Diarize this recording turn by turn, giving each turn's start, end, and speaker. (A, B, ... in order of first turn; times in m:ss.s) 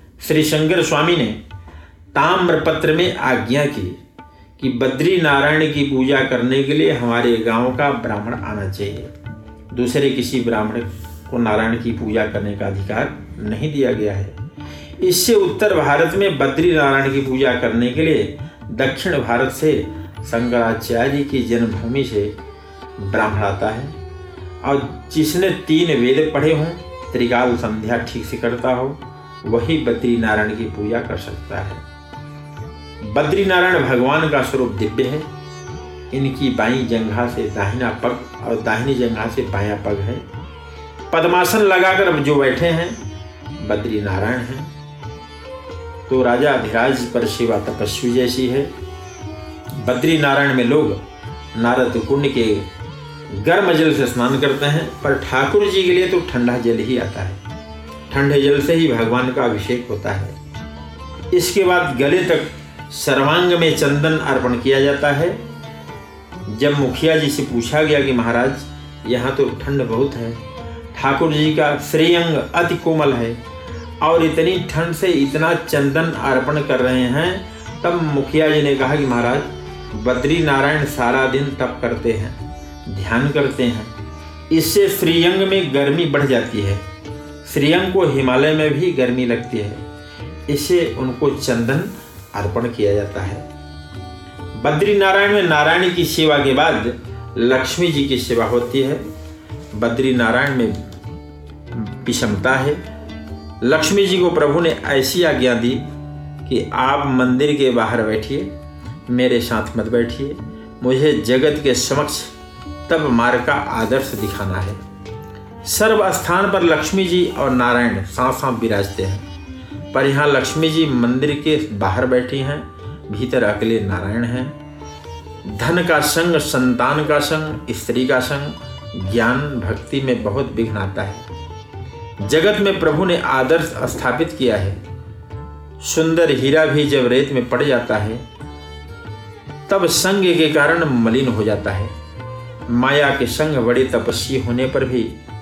0:00.2-0:01.4 A
0:02.1-0:04.0 A
0:04.6-0:09.1 A
0:09.7-0:14.4 A
0:15.0-0:22.3 A
0:23.0-0:23.9 A
0:24.6-0:31.8 A
0:33.0-0:35.2 A
0:36.1-0:40.2 A
0:41.1-0:43.0 A
0:43.6-0:44.7 A
0:46.1-0:48.7 A
0:49.8-0:51.0 A
0:51.5-0:52.7 A
0:53.3-0:57.4 A
0:58.1-1:00.3 A
1:01.3-1:05.4 A
1:06.5-1:10.4 A
1:10.9-1:13.4 A
1:14.0-1:23.9 A
1:24.5-1:26.8 A
1:27.4-1:29.8 A
1:30.5-1:33.4 A
1:34.6-1:39.0 A
1:39.7-1:40.8 A
1:41.7-1:42.8 A
1:43.6-1:45.8 A
1:46.4-1:48.5 A
1:49.1-1:52.3 A
1:52.9-1:54.8 A
1:55.6-1:59.2 A
1:59.9-2:04.5 A
2:05.4-2:11.2 A
2:12.2-2:14.8 A
2:15.8-2:18.2 A
2:19.7-2:21.9 A
2:22.7-2:25.2 A